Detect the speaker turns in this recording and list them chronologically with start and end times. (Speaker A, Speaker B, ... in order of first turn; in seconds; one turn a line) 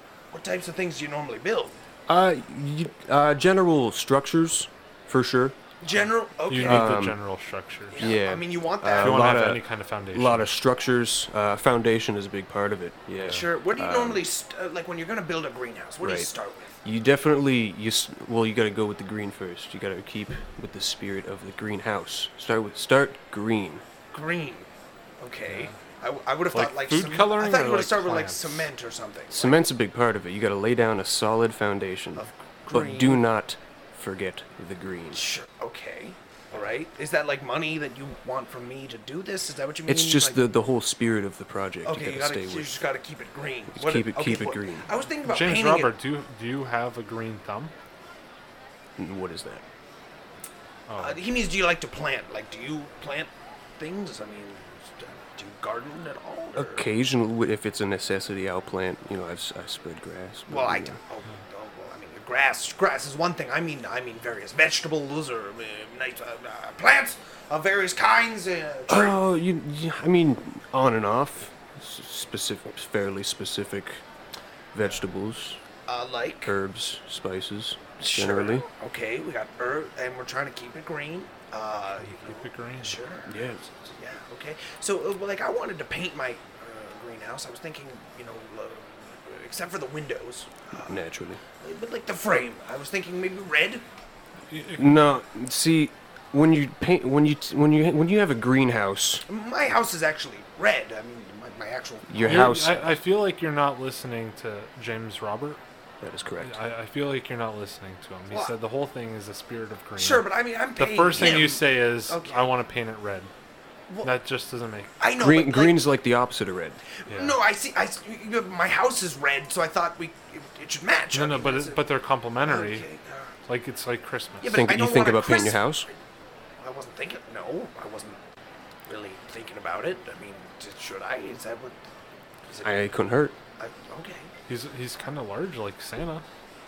Speaker A: 0.3-1.8
Speaker B: 2.1-5.6
Speaker A: 5.8-7.0
Speaker C: 6.5-8.0
Speaker B: 6.6-7.2
Speaker A: 7.9-9.4
Speaker B: 8.0-14.2
Speaker C: 9.0-10.5
Speaker C: 13.2-13.5
Speaker A: 13.3-16.8
Speaker B: 16.0-16.3
Speaker B: 16.8-23.8
Speaker A: 24.1-24.7
Speaker A: 25.2-29.6
Speaker C: 25.5-25.8
Speaker C: 26.5-28.7
Speaker B: 29.3-35.2
Speaker A: 32.1-33.2
Speaker A: 35.1-40.4
Speaker B: 39.9-42.8
Speaker A: 41.8-45.9
Speaker B: 43.7-44.9
Speaker C: 45.2-47.7
Speaker B: 49.0-49.6
Speaker C: 50.9-51.2
Speaker A: 51.0-56.9
Speaker B: 56.6-61.0
Speaker A: 60.5-69.2
Speaker B: 68.9-74.0
Speaker B: 74.7-75.6
Speaker A: 75.9-76.6
Speaker B: 76.5-78.7
Speaker A: 78.0-93.8
Speaker C: 82.0-83.0
Speaker B: 83.3-83.7
Speaker B: 90.9-91.4
Speaker C: 94.5-95.0
Speaker B: 94.8-99.2
Speaker A: 99.3-102.5
Speaker B: 102.1-103.0
Speaker C: 102.2-105.6
Speaker B: 106.0-106.6
Speaker C: 106.4-113.3
Speaker A: 110.0-112.5
Speaker A: 113.9-114.2
Speaker C: 114.0-114.9
Speaker A: 115.0-115.9
Speaker B: 115.2-116.8
Speaker A: 117.0-121.9
Speaker C: 117.1-117.4
Speaker C: 121.1-122.9
Speaker A: 122.4-123.3
Speaker C: 123.5-124.7
Speaker A: 124.4-126.0
Speaker B: 124.5-125.9
Speaker A: 126.6-128.2
Speaker A: 128.9-131.8
Speaker A: 132.5-132.9
Speaker B: 132.6-133.4
Speaker A: 133.6-134.3
Speaker C: 134.5-136.2